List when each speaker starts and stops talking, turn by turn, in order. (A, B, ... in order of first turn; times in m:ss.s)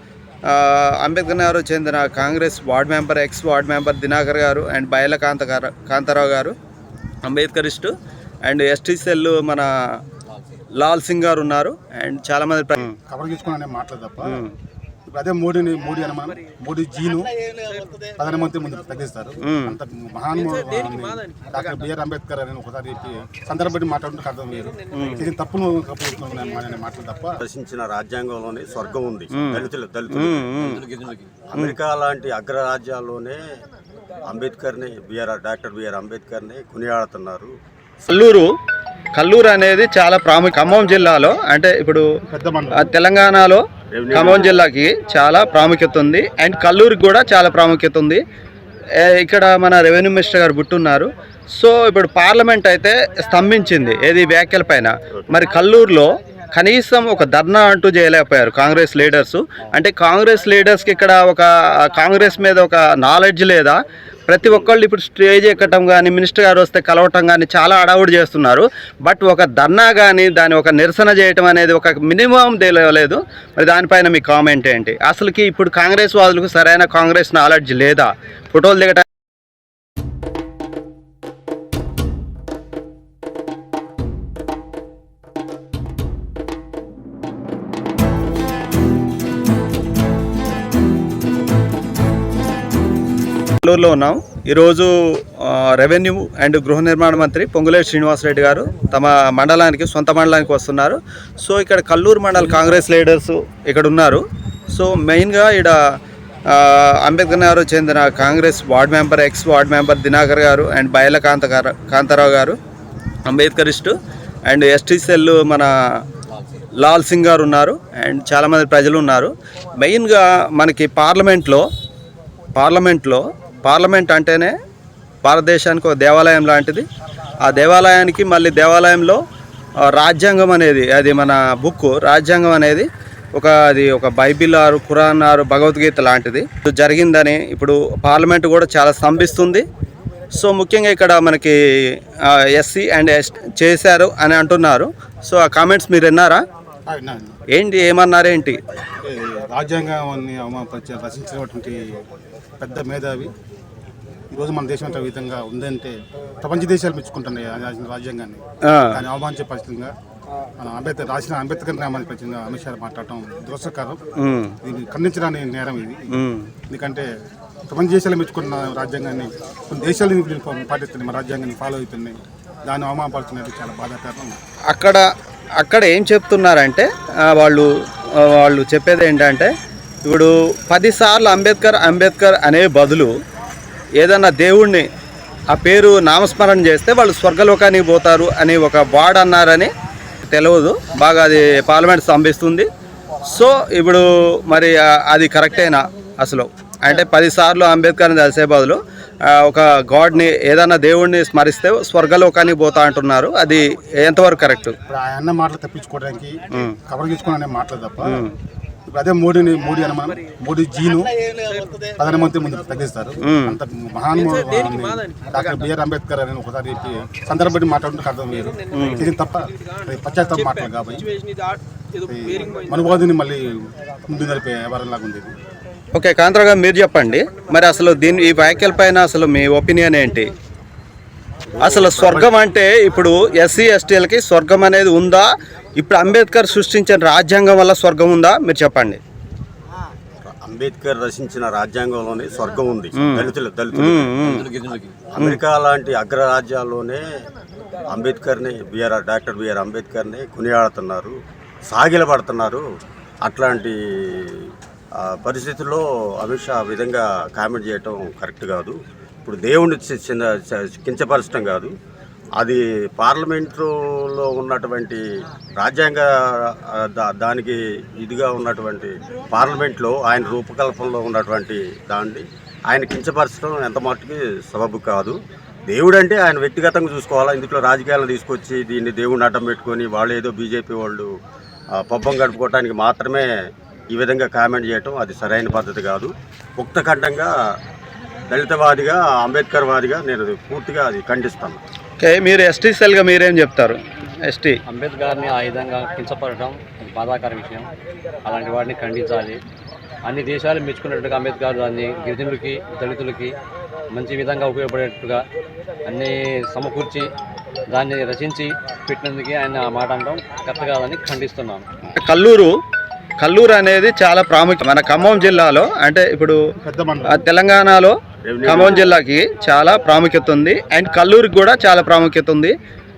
0:00.5-0:06.6 A
0:07.2-0:07.9 A
0:08.4-0:09.7 A
0:10.8-0:13.0 A
0:13.0-0:14.4 B
0:14.2-0:14.5 A
0:15.1-0:27.4 B
0:19.4-0:19.8 A
0:24.9-0:25.3 A
0:27.4-0:30.6 C
0:29.3-0:30.9 A
0:30.7-0:31.3 D
0:31.5-0:33.4 C
0:34.3-0:37.5 C
0:38.1-0:38.5 A
0:39.2-0:42.0 A
0:42.3-0:42.8 B
0:42.7-0:48.2 A
0:43.9-0:44.5 C
0:49.0-1:19.0 A
1:33.6-1:45.8 A
1:46.5-1:52.6 A
1:53.3-1:53.9 A
1:54.5-1:55.7 A
1:56.8-2:01.6 A
2:02.6-2:04.6 A
2:05.2-2:06.9 A
2:07.4-2:09.2 A
2:09.9-2:19.6 A
2:20.3-2:21.6 A
2:22.2-2:26.4 A
2:26.9-2:27.4 B
2:27.5-2:28.6 A
2:29.0-2:31.8 B
2:32.6-2:33.3 B
2:34.3-2:39.9 B
2:38.6-2:39.0 A
2:40.6-2:44.0 B
2:44.2-2:44.6 A
2:44.6-2:47.1 B
2:46.1-2:46.5 A
2:47.7-2:54.4 B
2:54.7-2:55.0 A
2:55.6-2:59.5 A
3:00.0-3:03.1 A
3:04.0-3:04.9 A
3:05.5-3:09.7 A
3:10.2-3:12.7 A
3:13.3-3:24.8 A
3:24.9-3:28.3 B
3:28.0-3:28.3 A
3:28.9-3:41.1 B
3:33.2-3:33.6 A
3:38.7-3:39.1 A
3:42.0-3:43.6 B
3:44.1-3:45.3 B
3:45.9-3:50.3 A
3:51.5-3:52.3 C
3:51.6-3:59.0 A
4:00.2-4:04.4 C
4:03.0-4:04.5 A
4:04.3-4:05.0 D
4:05.1-4:07.0 C
4:07.9-4:11.2 C
4:11.7-4:12.6 C
4:13.2-4:21.7 C
4:22.4-4:25.0 C
4:25.6-4:41.1 C
4:41.8-4:43.3 C
4:43.9-4:47.4 C
4:48.3-4:51.6 C
4:52.0-4:54.6 A
4:54.7-4:57.7 D
4:58.3-4:59.4 D
5:00.1-5:03.3 D
5:03.9-5:05.2 D
5:05.8-5:07.1 D
5:07.7-5:11.6 D
5:12.0-5:12.5 A
5:13.2-5:16.4 A
5:16.6-5:17.2 B
5:17.1-5:22.6 A
5:18.2-5:18.9 C